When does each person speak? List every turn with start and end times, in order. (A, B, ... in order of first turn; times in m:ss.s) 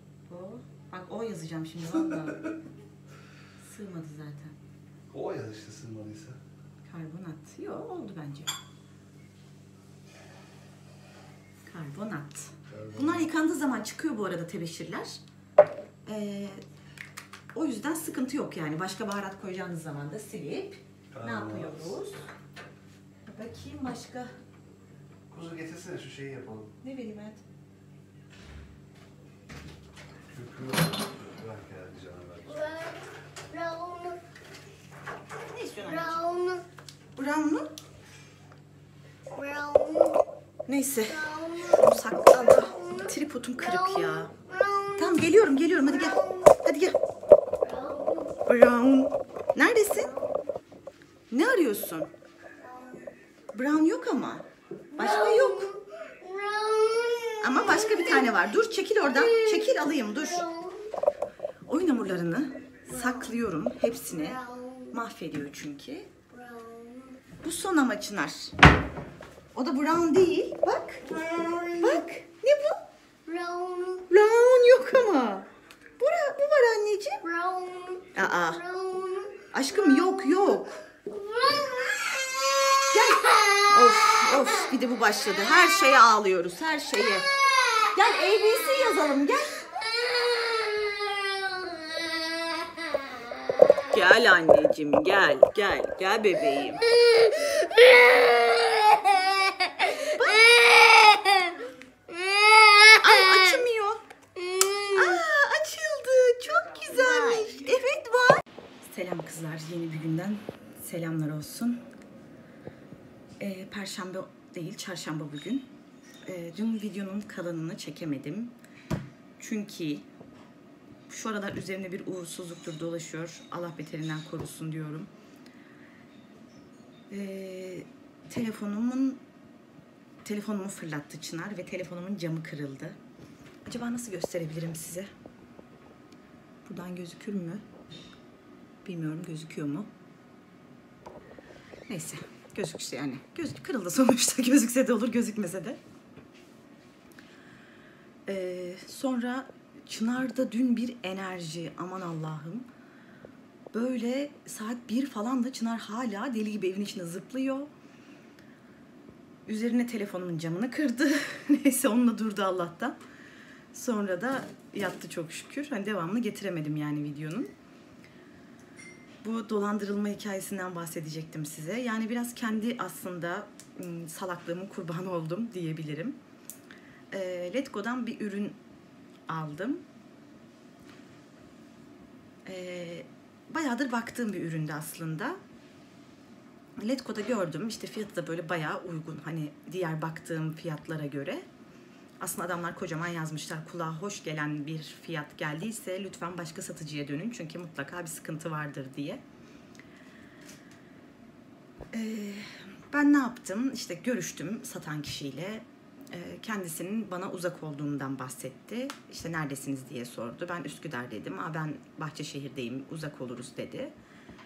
0:00.3-0:02.5 A
0:03.6-0:04.6 A
0:05.1-0:06.4 B
0:06.8-0:08.5 A
0:11.6-0:15.2 A
0:12.7-0:13.3 B
0:16.0-0:16.6 A
0:17.5-0:22.3 A
0:21.1-0:22.0 B
0:23.2-0:24.3 A
0:25.3-0:26.7 B
0:26.8-0:27.4 A
0:30.3-0:32.8 B
0:32.7-0:34.2 C
0:35.4-0:36.5 A
0:36.2-0:36.6 C
0:37.1-0:37.7 A
0:39.4-0:40.2 C
0:40.7-0:44.3 A
0:44.5-0:44.9 C
0:44.9-0:47.0 A
0:47.6-0:48.3 C
0:48.4-0:50.2 A
0:51.3-0:52.1 A
0:53.5-0:55.8 A
0:56.0-0:57.4 C
0:57.4-1:00.5 A
1:01.6-1:06.1 A
1:06.4-1:07.1 C
1:07.4-1:08.5 A
1:09.5-1:12.8 A
1:11.3-1:11.8 C
1:13.3-1:14.0 C
1:14.0-1:15.5 A
1:16.0-1:17.3 A
1:17.3-1:18.1 C
1:18.1-1:18.7 A
1:18.6-1:19.4 C
1:19.5-1:20.8 A
1:21.2-1:21.8 C
1:22.8-1:27.3 A
1:27.8-1:29.7 A
1:30.2-1:32.2 C
1:33.8-1:36.9 A
1:39.8-1:40.7 A
1:40.8-1:41.5 C
1:42.3-1:42.8 C
1:42.9-1:44.0 A
1:44.9-1:51.8 A
1:53.4-1:55.7 A
1:56.2-1:58.5 A
1:59.4-2:00.0 A
2:01.1-2:05.1 A
2:07.1-2:09.2 A
2:10.2-2:13.0 A
2:13.6-2:15.1 A
2:16.6-2:17.6 A
2:18.8-2:19.9 A
2:21.9-2:25.8 A
2:28.3-2:32.6 A
2:33.7-2:37.7 A
2:39.4-2:43.0 A
2:43.7-2:47.5 A
2:49.2-2:56.2 A
2:57.1-2:58.6 A
2:59.3-2:59.8 A
3:02.4-3:05.4 A
3:06.8-3:11.4 A
3:12.2-3:19.2 A
3:21.9-3:33.9 A